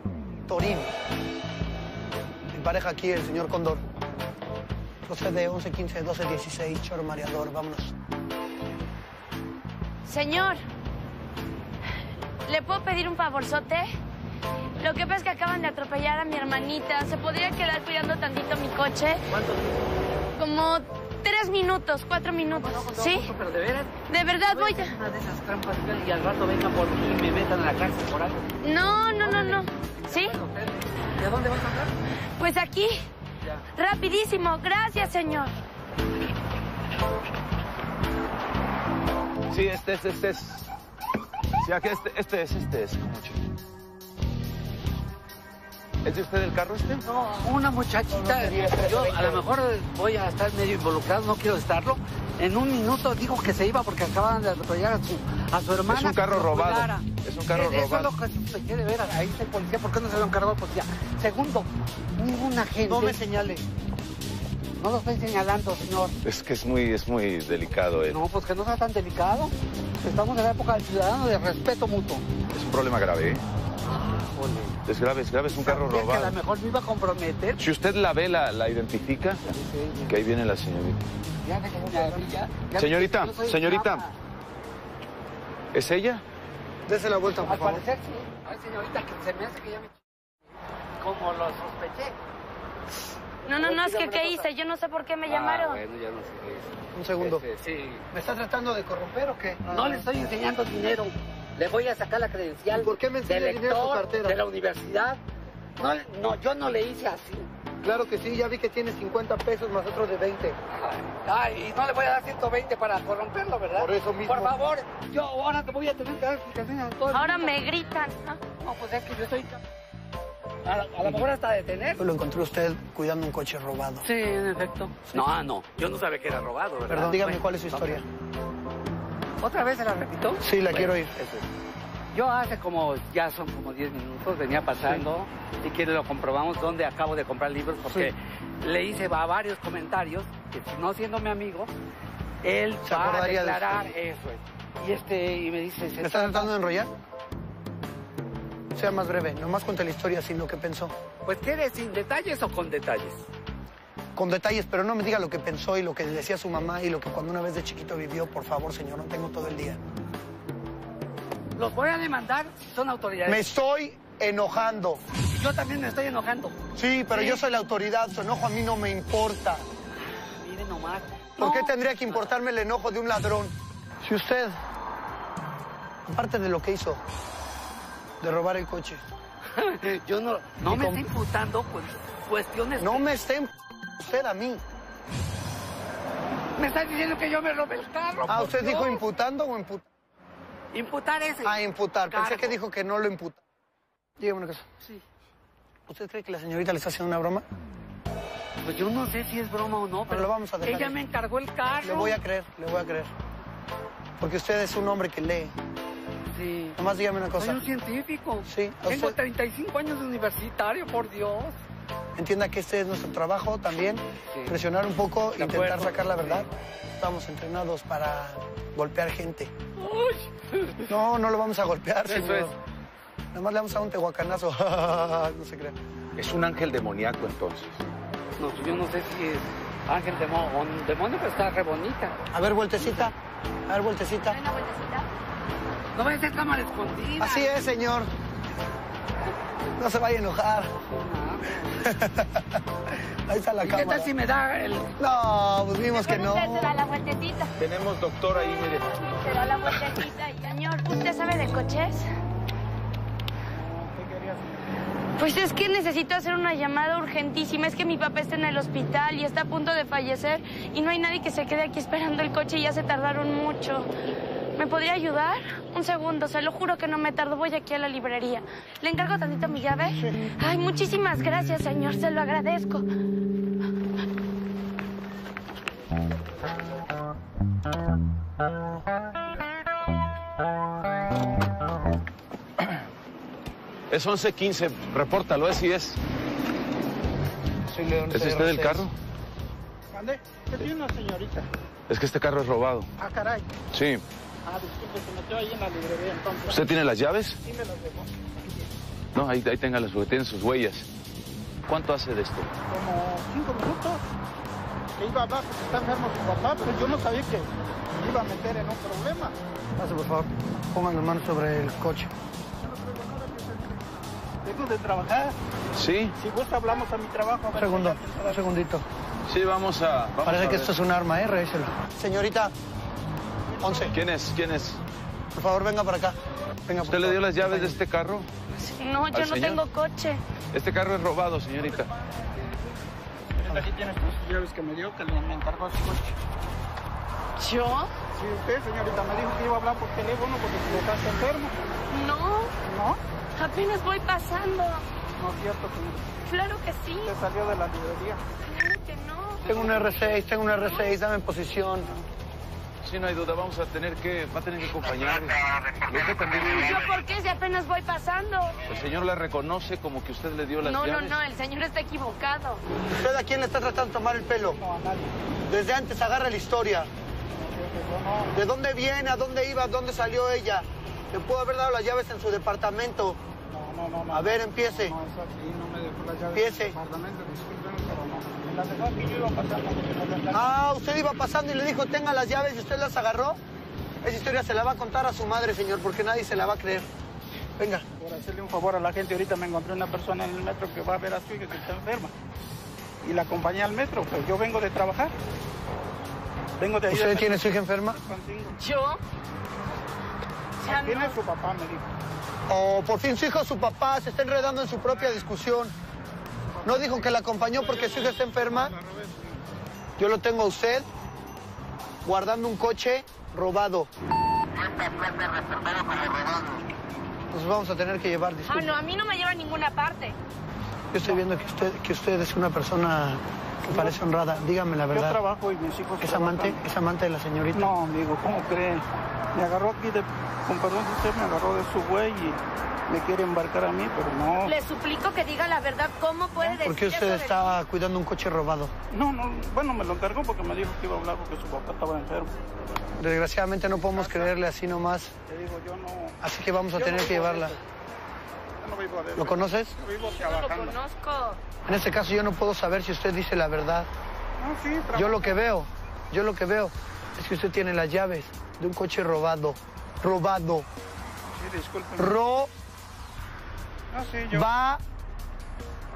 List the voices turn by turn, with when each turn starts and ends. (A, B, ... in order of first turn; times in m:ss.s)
0:00.5-0:00.9 A
0:02.5-0:03.8 A
0:05.1-0:08.0 A
0:10.0-0:10.6 B
0:12.4-0:13.9 B
0:14.8-0:19.2 B
0:19.3-0:19.8 C
0:20.3-0:23.3 B
0:22.5-0:28.5 C
0:24.1-0:25.0 B
0:28.6-0:30.3 B
0:29.2-0:31.9 C
0:32.4-0:33.0 B
0:33.8-0:35.6 B
0:39.5-0:40.7 D
0:41.6-0:43.4 D
0:46.0-0:47.0 D
0:47.1-1:03.2 C
0:48.1-0:49.4 A
0:55.9-0:58.2 D
1:02.8-1:03.7 A
1:04.8-1:06.2 C
1:06.2-1:08.2 D
1:08.1-1:12.2 C
1:12.5-1:13.4 D
1:13.8-1:14.8 C
1:14.9-1:16.4 D
1:15.5-1:17.6 C
1:17.6-1:19.5 D
1:19.5-1:20.2 C
1:20.1-1:21.0 D
1:21.4-1:24.2 C
1:21.8-1:22.3 A
1:22.7-1:24.0 D
1:25.7-1:26.2 D
1:26.9-1:27.9 A
1:27.4-1:29.9 C
1:31.0-1:32.2 C
1:33.5-1:34.5 A
1:33.5-1:35.8 B
1:35.3-1:38.0 C
1:36.9-1:37.4 A
1:38.1-1:40.1 A
1:39.7-1:45.2 C
1:42.7-1:44.4 A
1:45.8-1:47.5 C
1:47.8-1:50.6 A
1:50.7-1:57.6 C
1:53.7-1:54.6 A
1:57.1-1:58.4 B
1:58.6-1:59.6 C
2:00.6-2:02.0 C
2:02.0-2:04.1 A
2:04.0-2:08.0 C
2:05.1-2:05.3 A
2:06.9-2:08.0 A
2:09.4-2:11.4 C
2:10.4-2:11.2 A
2:12.1-2:21.7 C
2:22.4-2:26.6 C
2:22.8-2:23.9 A
2:26.0-2:26.9 A
2:28.7-2:31.0 A
2:31.2-2:33.2 C
2:34.2-2:39.9 A
2:41.6-2:43.5 C
2:43.3-2:45.0 A
2:45.3-2:46.6 C
2:46.8-2:49.6 A
2:47.1-2:47.4 B
2:50.1-2:52.3 C
2:51.4-2:54.6 A
2:56.1-2:57.0 A
2:58.2-2:59.1 A
2:59.6-3:03.1 C
3:00.7-3:01.1 A
3:02.8-3:04.6 A
3:06.6-3:09.0 C
3:08.3-3:09.9 A
3:10.7-3:12.6 C
3:11.4-3:13.4 A
3:14.2-3:14.6 A
3:15.9-3:17.4 A
3:18.6-3:22.2 C
3:20.1-3:21.0 A
3:21.8-3:23.1 A
3:24.2-3:25.6 A
3:26.3-3:26.8 C
3:26.8-3:27.7 A
3:27.4-3:31.6 C
3:28.4-3:29.2 A
3:32.2-3:39.5 A
3:34.3-3:34.6 C
3:35.4-3:36.5 C
3:39.8-3:40.9 C
3:40.9-3:42.6 A
3:42.1-3:42.5 D
3:43.3-3:45.8 A
3:46.2-3:47.8 D
3:48.4-3:52.2 C
3:52.3-3:53.1 A
3:52.8-3:53.0 C
3:53.7-3:54.4 A
3:54.3-3:55.1 B
3:55.9-3:57.5 C
3:57.2-3:58.1 A
3:59.8-4:00.7 A
4:00.8-4:01.7 C
4:01.8-4:02.6 A
4:03.3-4:04.1 A
4:03.6-4:04.9 C
4:05.0-4:06.8 A
4:05.9-4:07.5 B
4:07.6-4:09.1 D
4:09.1-4:12.1 B
4:13.5-4:14.7 E
4:15.2-4:23.9 B
4:24.6-4:32.9 B
4:43.9-4:46.0 D
4:47.7-4:48.8 C
4:48.1-4:48.9 D
4:49.9-4:51.5 E
4:51.9-4:52.9 D
4:53.0-4:53.5 E
4:53.7-4:54.0 D
4:54.4-4:56.7 E
4:56.5-4:57.4 D
4:57.4-4:58.3 E
4:59.1-5:00.9 D
5:01.7-5:02.5 D
5:02.7-5:04.0 E
5:05.0-5:09.4 E
5:09.8-5:12.1 A
5:12.9-5:13.6 E
5:14.4-5:15.4 E
5:15.8-5:16.2 D
5:16.2-5:18.5 E
5:17.5-5:18.9 A
5:19.3-5:20.7 D
5:20.2-5:22.5 A
5:23.5-5:23.9 E
5:23.6-5:24.0 A
5:23.9-5:24.8 D
5:25.4-5:27.8 A
5:26.8-5:28.3 D
5:28.5-5:30.2 B
5:29.1-5:29.6 D
5:30.5-5:31.9 D
5:33.4-5:36.2 E
5:37.4-5:37.9 B
5:38.1-5:41.6 E
5:41.9-5:42.5 B
5:42.6-5:43.0 E
5:43.4-5:44.8 B
5:45.1-5:46.1 E
5:46.2-5:47.2 B
5:47.0-5:48.2 E
5:48.4-5:49.4 B
5:49.4-5:50.2 E
5:49.5-5:51.9 A
5:50.6-5:50.9 B
5:52.8-5:56.8 D
5:56.4-5:58.6 B
5:58.6-6:01.2 D
6:00.6-6:02.6 B
6:02.9-6:04.6 A
6:04.6-6:05.2 E
6:05.5-6:06.9 A
6:07.3-6:08.4 E
6:08.3-6:13.2 A
6:13.5-6:20.5 E
6:14.1-6:15.0 A
6:16.3-6:16.8 A
6:20.3-6:23.4 A
6:24.0-6:26.9 A
6:27.6-6:27.8 A
6:28.0-6:32.1 E
6:33.0-6:35.2 E
6:36.6-6:38.6 E
6:36.9-6:38.0 A
6:38.5-6:39.0 B
6:40.6-6:41.2 B
6:40.6-6:41.9 E
6:42.5-6:45.7 A
6:46.5-6:49.5 E
6:46.6-6:48.7 A
6:50.0-6:50.9 A
6:52.0-6:53.9 A
6:57.3-6:58.8 A
6:58.5-7:00.2 B
7:00.9-7:05.2 A
7:03.6-7:04.0 E
7:04.9-7:06.6 E
7:06.0-7:07.7 A
7:07.5-7:14.6 E
7:14.4-7:17.6 B
7:16.4-7:18.7 A
7:18.9-7:22.3 E
7:23.0-7:25.1 A
7:23.7-7:24.3 E
7:25.3-7:26.2 E
7:26.2-7:27.6 A
7:26.7-7:27.6 E
7:28.6-7:30.8 E
7:29.2-7:29.8 A
7:30.1-7:31.4 B
7:31.7-7:33.9 A
7:34.4-7:35.4 E
7:34.9-7:40.7 A
7:41.3-7:42.1 E
7:42.0-7:42.5 A
7:43.9-7:44.5 E
7:44.3-7:44.8 A